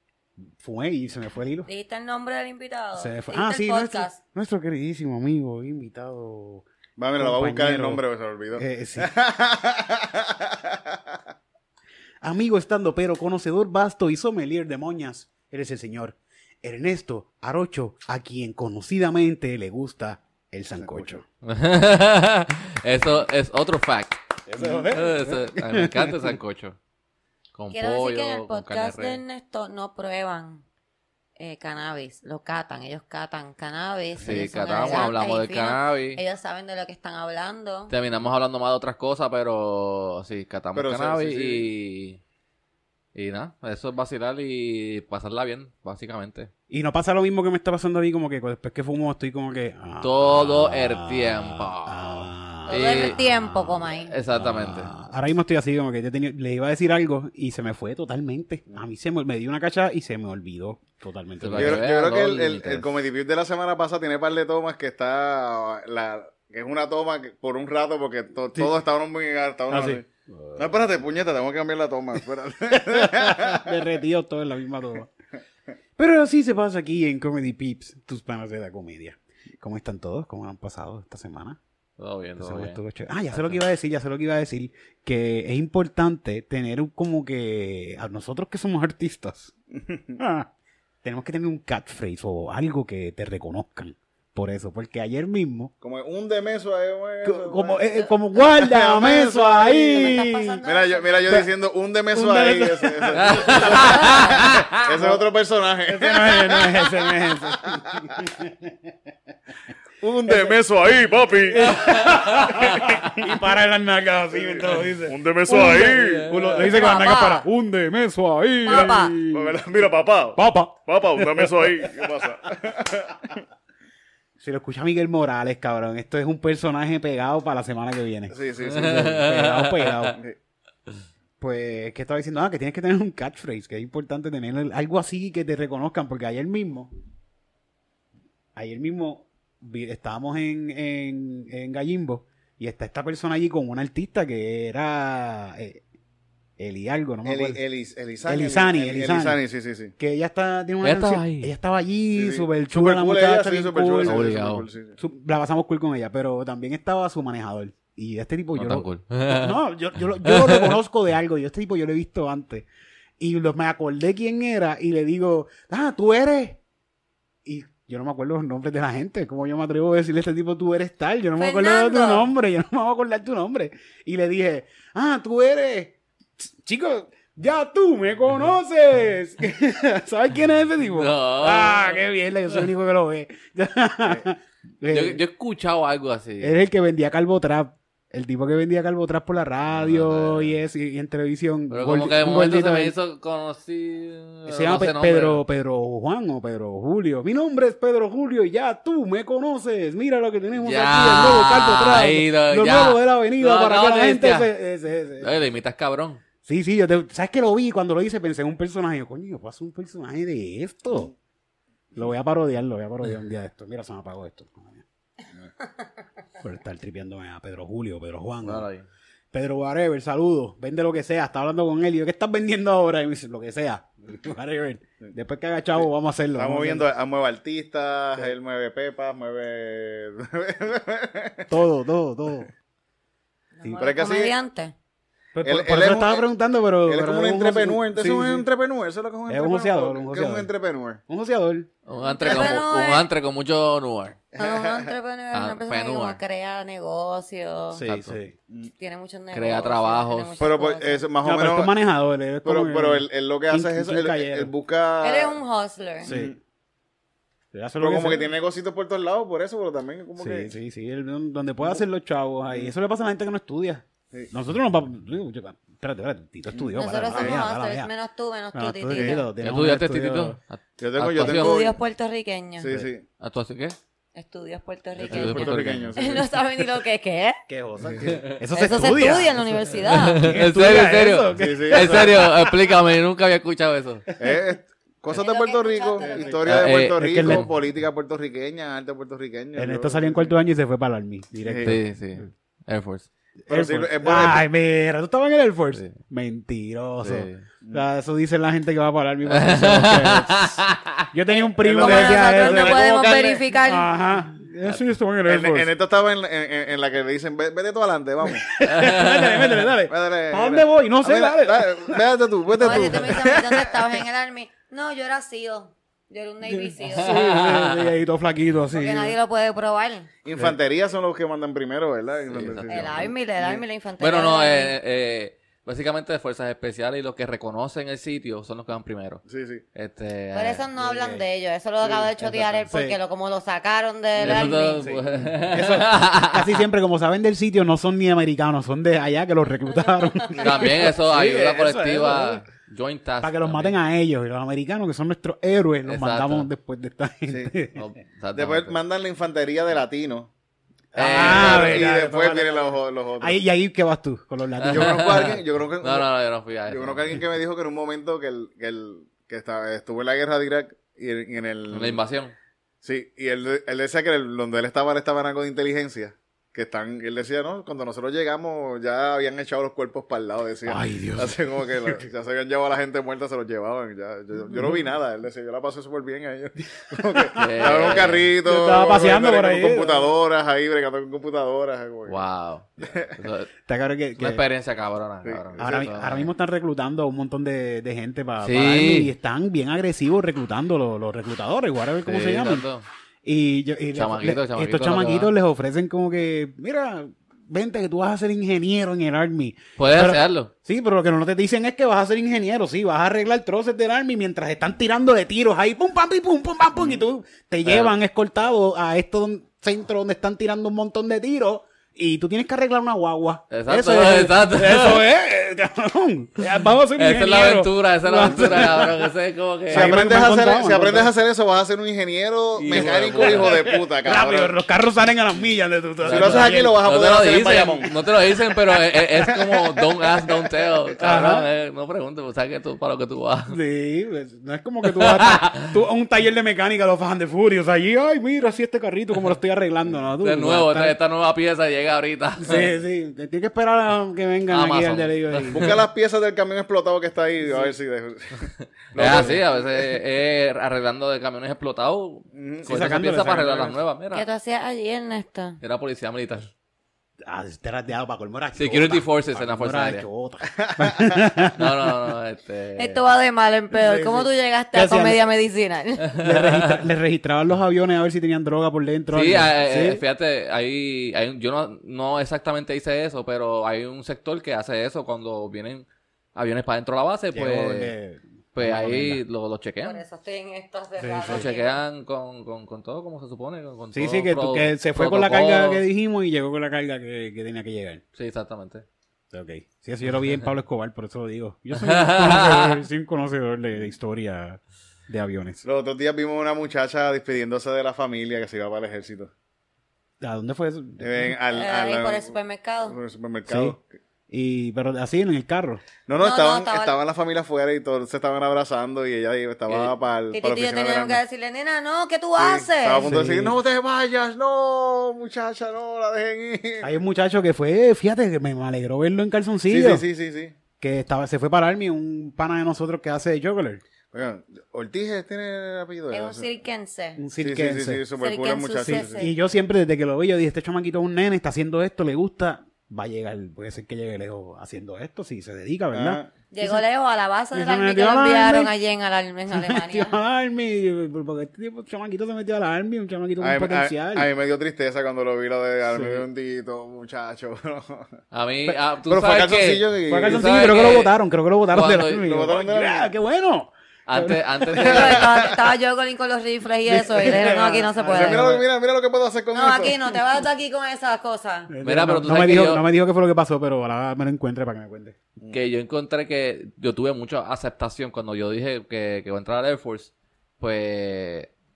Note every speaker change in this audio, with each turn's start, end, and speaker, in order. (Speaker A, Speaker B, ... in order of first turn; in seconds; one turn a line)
Speaker A: 0.6-1.7
Speaker B: 1.7-4.2
Speaker A: 3.0-8.0
Speaker C: 7.0-11.2
Speaker A: 8.6-9.1
Speaker A: 12.2-21.2
Speaker C: 20.8-21.2
Speaker D: 21.4-24.2
Speaker A: 24.5-26.3
Speaker D: 24.8-26.8
Speaker D: 27.5-29.2
Speaker B: 27.7-30.6
Speaker B: 31.4-37.9
Speaker D: 34.2-36.2
Speaker A: 34.9-35.1
Speaker D: 37.9-42.2
Speaker C: 40.7-41.7
Speaker D: 43.1-46.5
Speaker A: 46.7-61.9
Speaker D: 50.0-53.2
Speaker B: 52.7-54.1
Speaker D: 54.1-54.9
Speaker D: 61.4-62.8
Speaker C: 61.6-70.0
Speaker A: 62.6-62.9
Speaker A: 69.7-70.7
Speaker C: 70.6-73.7
Speaker A: 72.8-75.1
Speaker A: 76.0-81.6
Speaker D: 82.0-82.8
Speaker A: 82.4-89.5
Speaker D: 83.3-83.6
Speaker C: 89.7-90.2
Speaker A: 90.2-90.5
Speaker A: 91.0-95.7
Speaker C: 95.8-108.2
Speaker A: 97.2-100.6
Speaker B: 99.8-101.4
Speaker A: 102.1-105.2
Speaker D: 103.2-104.8
Speaker A: 105.9-108.8
Speaker C: 110.0-113.0
Speaker A: 110.2-110.6
Speaker A: 111.5-119.6
Speaker D: 112.4-112.9
Speaker C: 114.3-116.8
Speaker D: 116.0-116.6
Speaker B: 116.7-117.4
Speaker B: 118.7-119.2
Speaker C: 118.7-123.4
Speaker A: 120.3-122.1
Speaker A: 124.4-130.2
Speaker C: 128.3-129.2
Speaker D: 128.7-130.2
Speaker A: 131.4-136.9
Speaker A: 138.6-145.8
Speaker A: 146.6-147.6
Speaker C: 147.2-149.9
Speaker A: 148.2-149.4
Speaker A: 150.0-154.2
Speaker D: 150.8-151.5
Speaker C: 152.2-155.0
Speaker D: 154.0-154.7
Speaker A: 155.0-162.7
Speaker D: 158.6-159.6
Speaker D: 160.2-160.8
Speaker A: 163.2-166.6
Speaker A: 167.4-185.2
Speaker B: 171.4-172.3
Speaker D: 180.9-182.0
Speaker D: 184.9-186.6
Speaker A: 186.4-192.9
Speaker D: 189.7-190.5
Speaker D: 191.7-195.4
Speaker A: 194.5-205.3
Speaker D: 200.6-204.5
Speaker D: 205.2-206.2
Speaker A: 206.4-211.1
Speaker A: 211.9-214.8
Speaker A: 216.4-218.7
Speaker D: 218.4-218.9
Speaker A: 219.3-226.9
Speaker C: 226.4-231.5
Speaker A: 231.5-232.5
Speaker B: 233.6-234.7
Speaker A: 233.6-233.9
Speaker C: 233.8-234.3
Speaker A: 235.3-238.4
Speaker C: 235.4-236.2
Speaker C: 236.8-241.0
Speaker A: 239.3-240.5
Speaker A: 241.1-241.7
Speaker D: 241.9-244.2
Speaker B: 242.0-243.1
Speaker C: 242.2-242.5
Speaker C: 244.3-244.9
Speaker B: 244.4-247.8
Speaker D: 245.3-246.2
Speaker A: 247.7-248.3
Speaker D: 247.9-248.2
Speaker B: 248.8-251.0
Speaker D: 249.3-250.4
Speaker C: 250.4-251.7
Speaker A: 251.2-254.5
Speaker C: 252.4-255.4
Speaker B: 255.0-256.1
Speaker A: 256.0-256.3
Speaker C: 256.0-256.4
Speaker A: 257.5-258.3
Speaker C: 257.8-260.5
Speaker A: 260.2-267.9
Speaker B: 266.8-269.3
Speaker C: 267.1-267.4
Speaker A: 268.5-270.4
Speaker C: 268.9-269.2
Speaker D: 269.4-271.6
Speaker C: 270.8-271.8
Speaker B: 271.2-272.7
Speaker C: 272.6-273.0
Speaker D: 272.7-273.8
Speaker B: 274.1-277.4
Speaker C: 275.0-276.4
Speaker D: 275.1-275.9
Speaker A: 277.5-282.6
Speaker C: 277.8-278.2
Speaker D: 278.0-278.4
Speaker B: 278.5-280.2
Speaker D: 279.9-284.0
Speaker C: 281.4-282.3
Speaker A: 284.1-284.4
Speaker C: 284.2-290.3
Speaker B: 285.1-286.5
Speaker A: 286.0-286.3
Speaker D: 286.5-287.5
Speaker A: 286.9-287.5
Speaker A: 289.5-291.8
Speaker C: 291.4-291.8
Speaker D: 291.6-293.1
Speaker A: 293.5-305.7
Speaker C: 293.5-294.4
Speaker D: 297.0-297.4
Speaker D: 299.3-301.0
Speaker C: 301.6-303.1
Speaker B: 301.8-303.9
Speaker C: 305.3-308.5
Speaker A: 308.2-313.3
Speaker D: 308.6-309.6
Speaker C: 309.9-313.8
Speaker B: 312.6-317.2
Speaker A: 316.4-319.1
Speaker D: 316.9-317.9
Speaker B: 318.7-320.1
Speaker C: 320.2-323.6
Speaker D: 322.3-323.1
Speaker B: 322.7-324.8
Speaker D: 324.0-329.2
Speaker C: 329.2-329.6
Speaker D: 329.8-330.6
Speaker B: 330.3-334.9
Speaker A: 330.8-331.2
Speaker A: 332.2-333.0
Speaker D: 334.2-336.6
Speaker A: 334.2-342.4
Speaker D: 340.4-343.8
Speaker A: 343.2-347.8
Speaker D: 345.9-346.5
Speaker D: 347.8-348.8
Speaker C: 348.3-350.3
Speaker A: 350.9-355.3
Speaker D: 351.0-351.9
Speaker C: 351.0-353.4
Speaker D: 354.6-357.2
Speaker C: 354.7-356.1
Speaker C: 356.7-362.0
Speaker D: 361.7-362.3
Speaker C: 362.8-382.2
Speaker A: 370.6-372.0
Speaker A: 374.5-374.8
Speaker D: 377.3-378.3
Speaker A: 378.4-380.1
Speaker D: 382.1-383.5
Speaker C: 382.8-383.2
Speaker A: 383.6-384.4
Speaker D: 384.2-386.3
Speaker C: 385.2-385.8
Speaker A: 385.6-392.6
Speaker D: 388.4-389.1
Speaker D: 392.0-392.9
Speaker A: 393.2-419.1
Speaker D: 393.9-395.3
Speaker D: 399.8-400.5
Speaker D: 407.6-407.9
Speaker D: 413.5-415.1
Speaker D: 417.0-420.0
Speaker A: 419.7-421.1
Speaker C: 419.7-424.5
Speaker D: 422.6-423.7
Speaker A: 422.6-426.8
Speaker D: 426.0-433.6
Speaker C: 426.1-427.9
Speaker C: 429.2-429.7
Speaker C: 430.2-430.5
Speaker A: 431.0-431.5
Speaker A: 433.5-441.0
Speaker D: 434.9-435.7
Speaker D: 440.2-442.7
Speaker A: 442.4-445.8
Speaker D: 444.5-445.9
Speaker C: 445.5-449.9
Speaker A: 447.5-447.7
Speaker D: 448.9-454.2
Speaker A: 449.0-449.4
Speaker C: 452.4-452.7
Speaker A: 452.6-453.8
Speaker B: 454.1-455.6
Speaker D: 455.6-456.5
Speaker A: 457.2-461.9
Speaker D: 458.6-460.1
Speaker C: 460.6-461.5
Speaker D: 461.6-463.0
Speaker B: 462.8-466.1
Speaker A: 463.7-465.2
Speaker D: 466.1-466.8
Speaker A: 466.2-470.0
Speaker D: 469.1-477.9
Speaker A: 477.3-479.2
Speaker D: 478.5-480.0
Speaker B: 479.8-481.8
Speaker A: 481.0-481.5
Speaker D: 481.3-485.8
Speaker A: 483.9-488.0
Speaker D: 488.1-488.9
Speaker A: 489.3-495.6
Speaker D: 491.8-492.8
Speaker C: 495.6-499.3
Speaker A: 500.2-501.4
Speaker C: 501.0-502.4
Speaker B: 501.5-503.0
Speaker C: 502.9-503.9
Speaker A: 503.5-503.8
Speaker A: 504.3-505.8
Speaker C: 506.1-511.2
Speaker B: 506.2-506.9
Speaker D: 509.7-509.9
Speaker B: 510.3-513.1
Speaker C: 512.4-516.9
Speaker A: 513.0-513.6
Speaker A: 516.8-520.0
Speaker C: 519.7-520.5
Speaker A: 520.8-523.8
Speaker C: 524.1-526.5
Speaker B: 526.1-527.2
Speaker A: 527.2-528.0
Speaker C: 527.4-529.3
Speaker B: 528.2-529.3
Speaker A: 528.9-536.8
Speaker C: 535.9-536.3
Speaker B: 536.5-540.2
Speaker A: 537.5-538.7
Speaker A: 539.5-544.3
Speaker C: 543.4-548.1
Speaker A: 545.9-546.2
Speaker D: 548.3-551.2
Speaker C: 549.1-550.8
Speaker A: 550.1-554.8
Speaker D: 551.7-552.3
Speaker C: 552.2-553.1
Speaker D: 554.1-555.4
Speaker C: 554.8-555.5
Speaker B: 554.8-558.6
Speaker A: 556.9-558.6
Speaker C: 558.0-560.0
Speaker B: 559.5-561.7
Speaker A: 561.7-565.1
Speaker D: 561.8-562.9
Speaker D: 565.5-571.5